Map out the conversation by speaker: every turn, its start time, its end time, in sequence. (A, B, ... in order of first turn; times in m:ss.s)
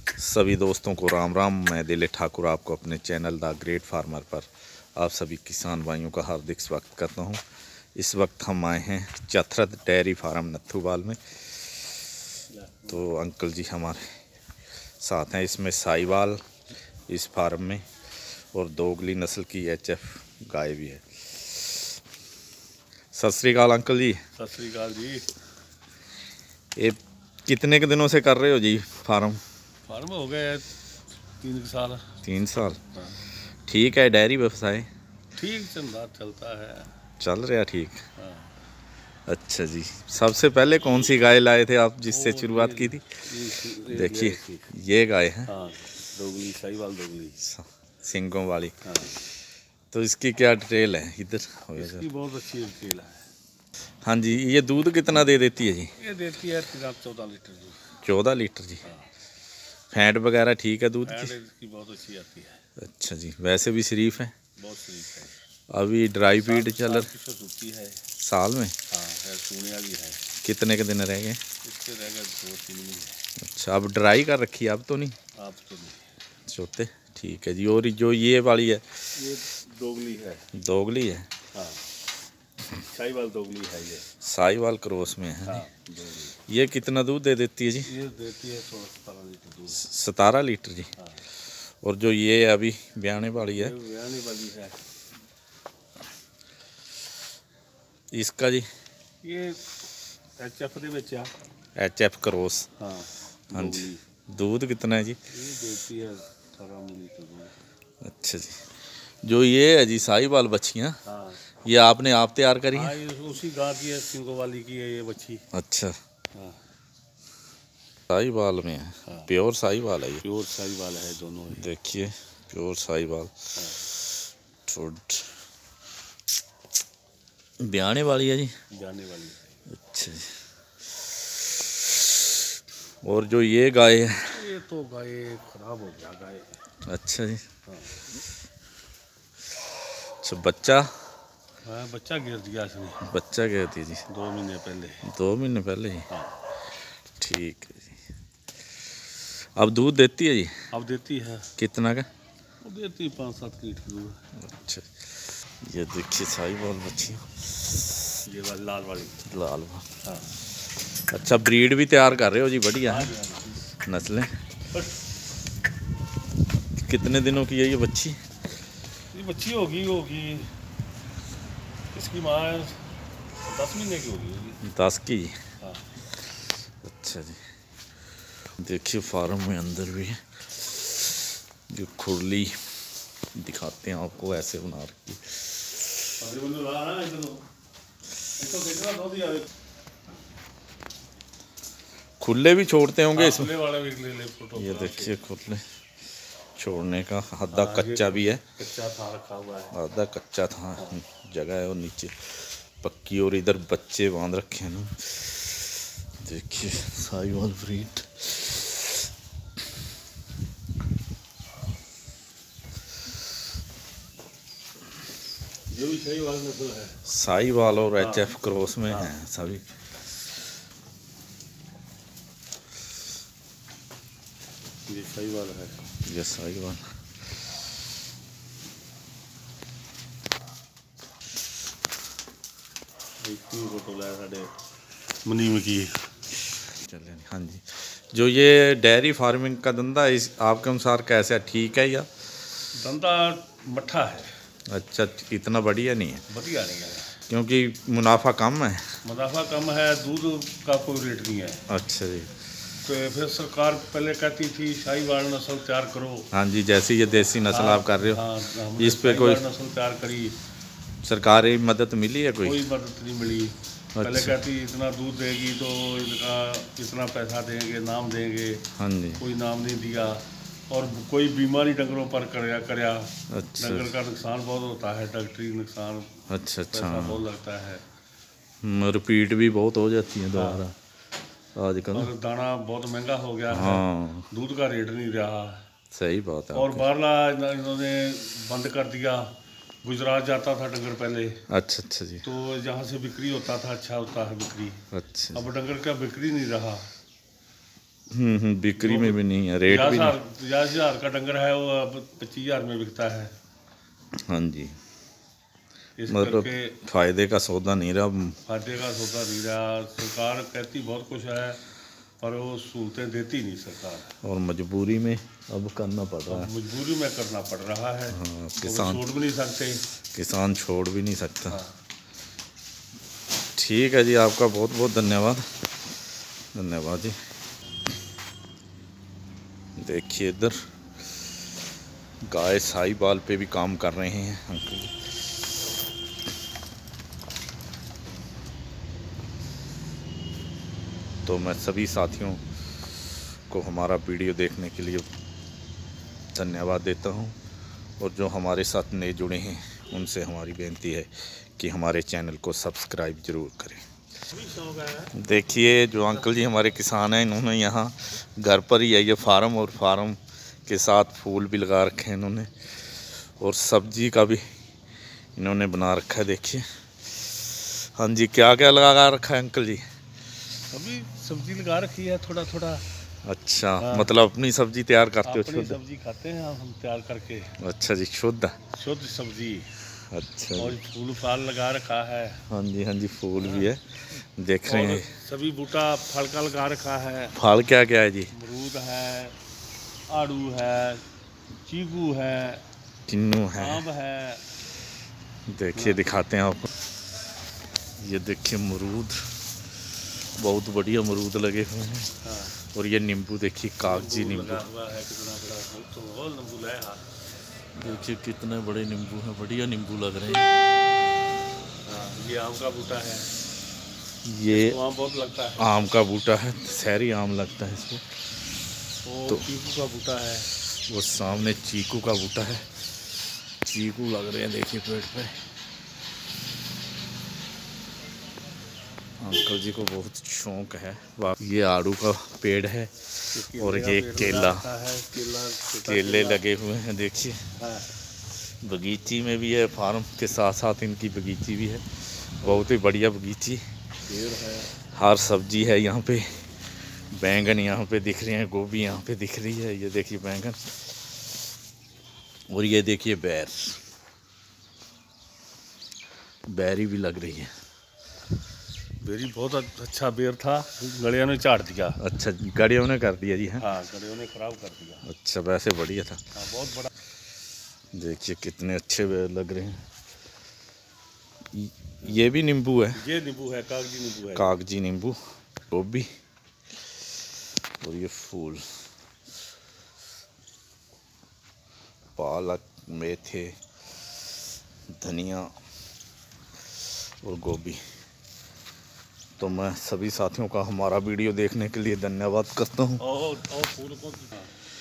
0:00.2-0:07.4 A
0:08.0-0:11.2 A
0:12.5-0:13.0 B
0:12.9-0:14.1 A
0:15.0-0:16.4 A
0:17.1-0:17.9 A
0:18.5-0:21.1 A
0:23.1-0:24.2 A
0:24.4-0:25.3 B
0:26.8-0:29.4 A
0:29.9-0:30.7 B
0:31.4-0:32.1 B
0:32.2-0:32.8 A
0:32.9-0:33.2 B
0:33.7-0:34.9 A
0:35.3-0:36.9 B
0:37.2-0:38.0 A
0:38.2-0:38.5 B
0:39.3-0:43.2 A
0:42.1-0:44.7 B
0:43.8-0:45.5 A
0:45.5-0:47.4 B
0:47.4-0:48.8 A
0:48.8-0:49.2 B
0:49.9-0:52.0 A
0:51.8-0:53.2 B
0:54.0-0:55.9 A
0:56.0-0:57.8 B
0:58.0-0:58.8 A
0:59.9-1:01.3 A
1:01.0-1:02.6 B
1:02.8-1:04.3 A
1:04.6-1:05.4 B
1:05.7-1:07.1 A
1:06.4-1:08.0 B
1:08.2-1:08.8 A
1:08.9-1:10.3 B
1:10.4-1:11.4 A
1:11.6-1:13.2 B
1:13.4-1:15.2 A
1:15.4-1:16.0 B
1:16.5-1:19.0 A
1:19.2-1:20.5 B
1:20.5-1:21.3 A
1:21.5-1:21.8 B
1:22.9-1:24.1 B
1:24.2-1:25.6 A
1:25.4-1:26.4 B
1:26.5-1:27.9 A
1:27.8-1:29.9 B
1:29.8-1:30.9 A
1:31.0-1:31.2 B
1:31.8-1:33.8 A
1:33.6-1:34.8 B
1:38.1-1:38.7 A
1:39.2-1:39.6 B
1:40.4-1:41.3 B
1:41.8-1:42.7 A
1:42.8-1:44.0 B
1:43.5-1:45.2 A
1:45.3-1:47.5 B
1:48.0-1:48.6 A
1:49.2-1:51.0 A
1:51.1-1:51.4 B
1:51.6-1:53.0 A
1:52.7-1:55.4 B
1:55.5-1:55.9 A
1:56.3-1:56.6 B
1:58.1-2:00.2 A
2:00.2-2:01.7 B
2:01.6-2:03.4 A
2:03.6-2:03.8 B
2:04.7-2:05.3 A
2:07.6-2:08.5 A
2:08.7-2:09.6 B
2:09.7-2:10.3 A
2:13.0-2:14.4 A
2:14.3-2:16.6 B
2:16.9-2:17.4 A
2:17.7-2:18.0 B
2:20.2-2:20.9 A
2:21.6-2:23.1 B
2:23.0-2:24.0 A
2:24.1-2:25.0 B
2:25.0-2:26.1 A
2:26.1-2:26.4 B
2:27.2-2:28.0 A
2:29.6-2:30.5 A
2:30.7-2:31.5 B
2:31.6-2:32.1 A
2:32.6-2:34.2 B
2:34.4-2:35.1 A
2:35.6-2:37.9 A
2:38.3-2:39.2 B
2:39.3-2:39.8 A
2:40.0-2:40.3 B
2:41.1-2:43.1 A
2:42.9-2:43.7 B
2:43.9-2:44.3 A
2:46.8-2:48.2 A
2:49.1-2:50.5 B
2:51.9-2:52.8 B
2:53.4-2:54.6 B
2:54.6-2:55.4 A
2:55.6-2:55.9 B
2:56.8-2:57.4 A
2:58.6-3:01.0 A
3:01.7-3:02.6 A
3:03.3-3:05.6 A
3:06.2-3:07.4 B
3:08.4-3:09.5 B
3:12.2-3:13.5 A
3:13.1-3:15.2 B
3:14.6-3:15.6 A
3:16.6-3:18.4 A
3:17.5-3:19.8 B
3:19.7-3:25.7 A
3:26.2-3:28.7 A
3:35.7-3:37.0 B
3:37.1-3:39.6 A
3:38.0-3:38.3 B
3:44.9-3:45.8 B
3:46.0-3:46.8 A
3:53.2-3:54.5 B
3:55.2-3:56.1 B
3:56.8-4:02.1 A
4:02.8-4:04.3 B
4:04.7-4:06.2 A
4:06.3-4:07.2 B
4:07.3-4:08.8 A
4:09.0-4:11.6 B
4:11.7-4:12.3 A
4:12.8-4:16.3 B
4:16.3-4:19.4 A
4:17.2-4:20.4 B
4:21.0-4:22.6 A
4:22.4-4:28.7 B
4:24.0-4:24.4 A
4:28.8-4:29.2 A
4:29.2-4:36.2 B
4:33.3-4:33.9 A
4:36.3-4:37.2 A
4:36.7-4:37.8 B
4:38.6-4:40.8 A
4:40.3-4:40.6 B
4:41.6-4:42.1 A
4:41.9-4:45.6 B
4:43.5-4:44.3 A
4:45.9-4:46.9 A
4:46.5-4:49.3 B
4:49.8-4:51.4 B
4:51.5-4:52.2 A
4:52.2-4:56.9 B
4:54.9-4:55.4 A
4:58.1-5:00.2 A
4:58.8-5:03.3 B
5:04.3-5:04.8 A
5:06.0-5:06.8 B
5:06.1-5:08.4 A
5:08.5-5:11.6 B
5:12.2-5:14.1 B
5:14.2-5:16.5 A
5:16.3-5:19.8 B
5:18.1-5:19.0 A
5:20.1-5:21.6 A
5:23.6-5:25.5 A
5:26.5-5:27.2 A
5:29.8-5:30.6 A
5:32.3-5:35.0 A
5:41.3-5:42.4 A
5:43.5-5:45.0 A
5:46.3-5:47.4 A
5:48.0-5:53.8 A
5:54.3-5:55.2 B
5:55.1-6:02.5 A
6:03.2-6:04.4 A
6:05.4-6:06.6 A
6:07.5-6:09.8 A
6:10.7-6:12.8 B
6:13.2-6:15.8 A
6:13.8-6:14.1 B
6:15.2-6:17.5 B
6:17.6-6:18.6 A
6:18.7-6:19.7 B
6:20.1-6:20.8 A
6:20.6-6:22.4 B
6:22.5-6:25.1 A
6:23.4-6:23.7 B
6:24.6-6:27.4 B
6:27.4-6:28.3 A
6:28.3-6:29.4 B
6:30.1-6:31.0 B
6:31.6-6:32.6 B
6:33.1-6:33.8 A
6:33.6-6:34.4 B
6:35.5-6:36.7 A
6:35.8-6:36.0 B
6:38.0-6:39.3 A
6:40.4-6:42.1 A
6:42.2-6:42.6 B
6:42.6-6:44.6 A
6:43.8-6:47.1 B
6:47.8-6:50.5 A
6:51.8-6:53.3 B
6:54.2-6:54.8 A
6:54.5-6:55.6 B
6:55.6-6:58.0 A
6:59.0-7:00.5 B
7:00.9-7:02.9 A
7:03.6-7:05.4 A
7:09.2-7:14.6 A
7:13.3-7:16.4 B
7:15.8-7:17.4 A
7:17.6-7:17.9 B
7:18.6-7:23.6 A
7:24.1-7:24.7 B
7:24.9-7:26.5 A
7:27.1-7:30.6 A
7:32.5-7:33.8 A
7:36.5-7:37.5 A
7:39.0-7:42.0 B
7:42.0-7:43.6 A
7:43.6-7:45.1 B
7:45.1-7:46.2 A
7:46.4-7:46.9 B
7:47.9-7:49.8 A
7:51.5-7:53.0 A
7:53.0-7:54.6 B
7:54.3-7:55.2 A
7:55.7-7:56.1 A
7:57.8-7:58.6 A
8:02.2-8:03.6 A
8:04.9-8:05.5 A
8:07.2-8:07.8 A
8:09.4-8:13.0 A
8:13.0-8:14.5 B